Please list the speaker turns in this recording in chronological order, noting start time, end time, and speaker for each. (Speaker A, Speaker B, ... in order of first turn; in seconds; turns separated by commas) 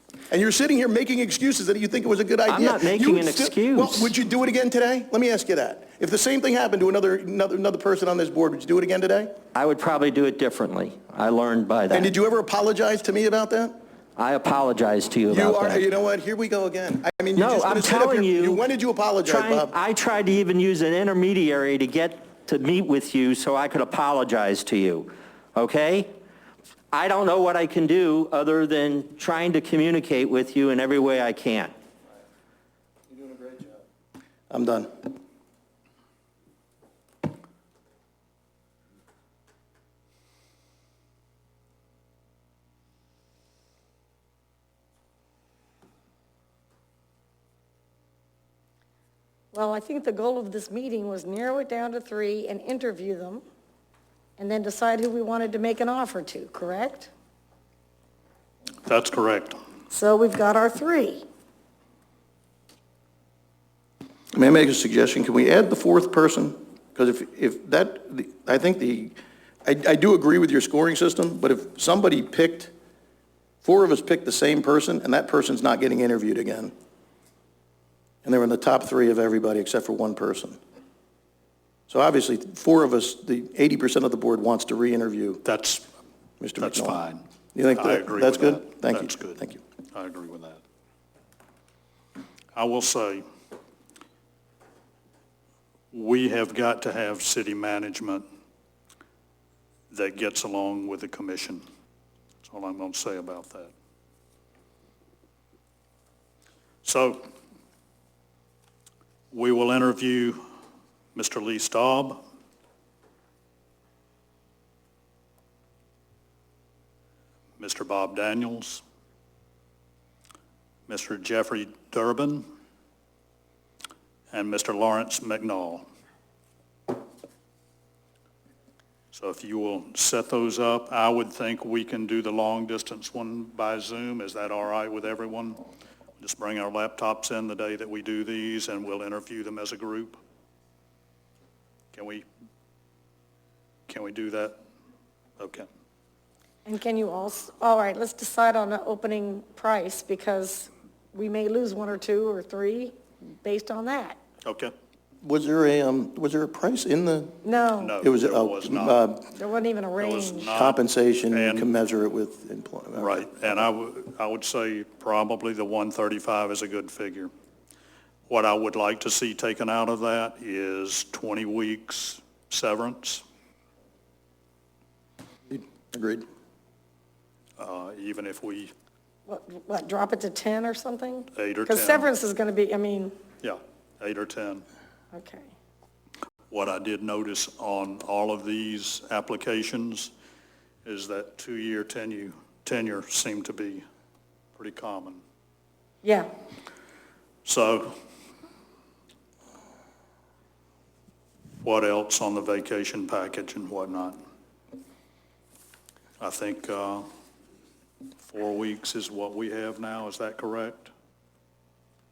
Speaker A: 0.3-9.3, Speaker B: 2.5-4.2, Speaker B: 9.5-12.1, Speaker A: 11.9-13.8, Speaker B: 14.2-15.8, Speaker A: 15.3-19.8, Speaker B: 17.4-18.6, Speaker B: 19.2-26.1, Speaker B: 26.9-31.7, Speaker A: 33.1-33.7, Speaker A: 34.5-34.9, Speaker C: 49.5-53.4, Speaker C: 54.4-57.1, Speaker D: 58.9-59.6, Speaker C: 59.9-61.2, Speaker A: 64.3-72.7, Speaker A: 73.6-76.7, Speaker A: 78.2-80.6, Speaker A: 81.9-85.4, Speaker D: 85.4-85.8, Speaker A: 86.4-87.0, Speaker D: 86.6-87.2, Speaker A: 87.5-89.6, Speaker D: 87.7-90.6, Speaker D: 92.5-93.2, Speaker D: 95.9-98.2, Speaker D: 99.9-101.6, Speaker D: 102.4-103.7, Speaker D: 106.8-107.3, Speaker D: 109.3-110.4, Speaker D: 111.1-112.2, Speaker D: 117.6-118.8, Speaker D: 120.9-122.4, Speaker D: 124.3-125.8, Speaker D: 129.1-135.6, Speaker D: 136.2-140.2, Speaker D: 141.9-142.2, Speaker D: 143.9-144.6, Speaker D: 145.4-145.7, Speaker C: 146.6-154.2, Speaker D: 154.4-154.7, Speaker A: 155.2-157.4, Speaker C: 157.4-157.9, Speaker D: 157.8-159.0, Speaker A: 158.0-159.2, Speaker C: 159.3-160.5, Speaker D: 160.0-161.7, Speaker A: 160.5-163.6, Speaker D: 163.0-167.3, Speaker D: 168.3-173.2, Speaker A: 175.5-176.2, Speaker D: 177.6-178.7, Speaker C: 179.3-183.1, Speaker D: 181.3-182.1, Speaker D: 183.4-184.6, Speaker C: 185.1-185.5, Speaker D: 186.5-190.1, Speaker D: 190.8-193.8, Speaker D: 194.6-195.2, Speaker C: 196.0-196.3, Speaker D: 197.4-198.0, Speaker D: 201.6-204.2, Speaker D: 206.2-207.1, Speaker D: 208.3-210.9